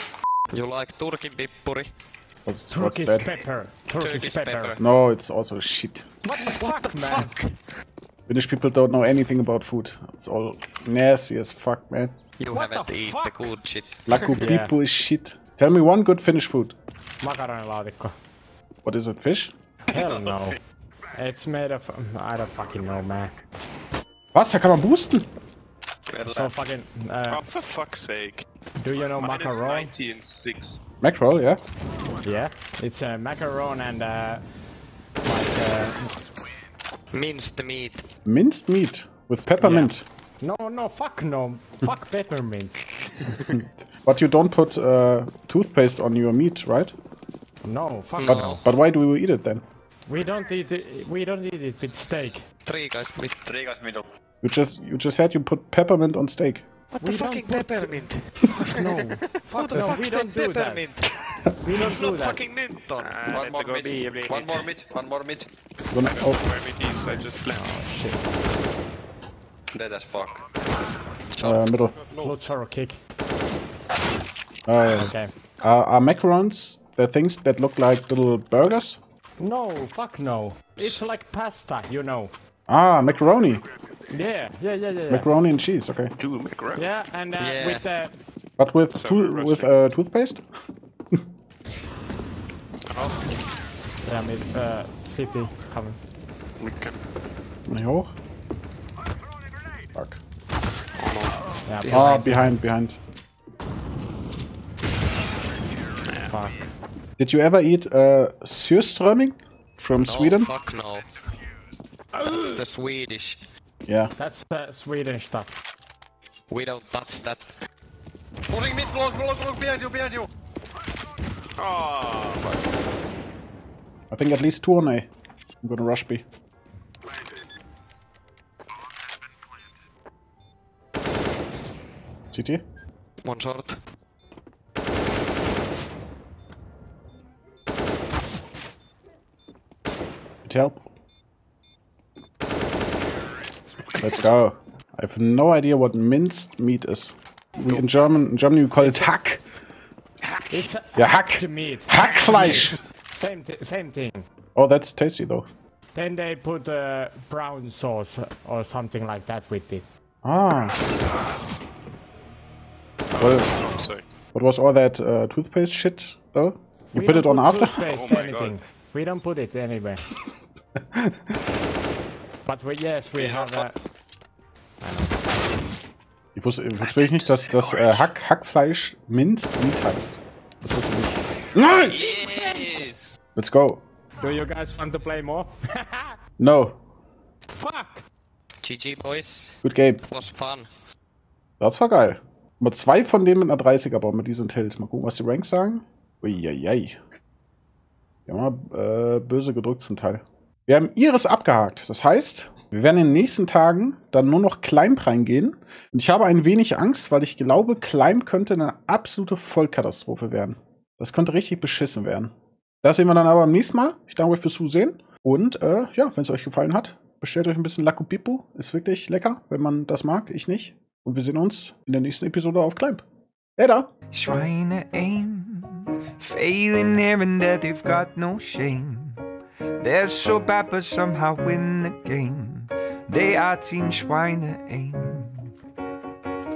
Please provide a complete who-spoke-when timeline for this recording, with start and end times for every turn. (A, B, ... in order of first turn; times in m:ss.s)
0:00.5-0:01.9 A
0:02.4-0:03.3 B
0:02.7-0:04.8 C
0:04.0-0:04.8 A
0:04.8-0:06.1 B
0:06.2-0:07.4 C
0:06.5-0:07.5 A
0:08.3-0:12.2 B
0:12.4-0:14.4 A
0:12.5-0:13.5 C
0:14.1-0:16.8 B
0:14.4-0:14.7 C
0:17.2-0:18.1 C
0:18.8-0:19.5 B
0:19.9-0:20.6 C
0:19.9-0:20.6 D
0:21.1-0:23.3 C
0:24.3-0:25.3 B
0:26.1-0:26.5 D
0:26.2-0:27.4 C
0:27.3-0:28.4 E
0:28.8-0:29.9 C
0:29.2-0:30.8 E
0:31.0-0:31.6 B
0:32.2-0:34.4 C
0:35.2-0:36.3 C
0:37.1-0:38.1 A
0:38.2-0:40.0 B
0:39.6-0:42.8 C
0:43.4-0:47.0 B
0:47.6-0:48.6 C
0:48.2-0:48.6 A
0:48.2-0:49.6 B
0:50.1-0:52.4 C
0:52.6-0:53.3 A
0:53.4-0:54.0 D
0:54.4-0:56.6 B
0:56.9-0:58.9 A
0:57.0-0:58.1 C
0:58.7-1:00.9 C
0:59.5-1:03.2 A
1:01.6-1:02.4 C
1:03.0-1:04.7 E
1:03.3-1:05.5 D
1:05.9-1:06.4 B
1:06.0-1:07.7 E
1:07.5-1:08.2 C
1:09.7-1:10.4 D
1:11.3-1:11.8 A
1:11.4-1:11.9 B
1:12.2-1:13.0 C
1:14.7-1:19.0 B
1:14.9-1:15.3 C
1:19.4-1:22.3 C
1:22.7-1:23.6 B
1:24.1-1:25.3 C
1:25.1-1:26.1 B
1:26.2-1:26.9 E
1:26.7-1:28.1 C
1:27.4-1:27.8 A
1:28.6-1:30.4 B
1:28.9-1:29.7 E
1:32.9-1:33.2 E
1:34.0-1:36.0 C
1:36.6-1:37.0 E
1:37.7-1:38.1 B
1:39.9-1:40.2 B
1:41.0-1:42.0 E
1:41.7-1:42.6 C
1:41.8-1:43.0 B
1:46.0-1:46.4 E
1:46.3-1:46.6 C
1:47.2-1:50.5 B
1:50.0-1:51.1 A
1:52.2-1:53.5 A
1:52.2-1:52.6 E
1:53.9-1:54.1 B
1:54.2-1:55.5 C
1:56.5-1:57.5 A
1:58.5-2:00.3 D
2:01.6-2:02.5 E
2:04.1-2:05.1 B
2:05.6-2:06.2 B
2:12.3-2:12.6 B
2:13.2-2:13.8 A
2:20.4-2:20.8 B
2:24.0-2:29.4 B
2:28.8-2:29.1 C
2:30.5-2:34.2 C
2:30.9-2:32.8 B
2:34.5-2:35.5 B
2:35.9-2:39.8 C
2:40.2-2:40.8 B
2:40.6-2:41.5 E
2:43.1-2:44.0 E
2:43.2-2:43.5 B
2:44.3-2:47.8 B
2:46.9-2:50.0 C
2:47.9-2:48.6 E
2:50.8-2:51.3 B
2:52.4-2:53.7 C
2:54.8-2:55.2 C
2:56.3-3:02.2 B
2:56.9-2:58.1 A
3:01.8-3:03.1 E
3:02.2-3:02.7 C
3:03.4-3:03.8 B
3:04.2-3:06.2 C
3:06.4-3:06.8 B
3:07.5-3:08.0 C
3:08.6-3:10.7 A
3:09.6-3:10.0 B
3:11.6-3:17.0 B
3:18.3-3:43.0 B
3:43.6-3:43.9 B
3:44.1-3:49.2 F
3:49.8-3:55.5 F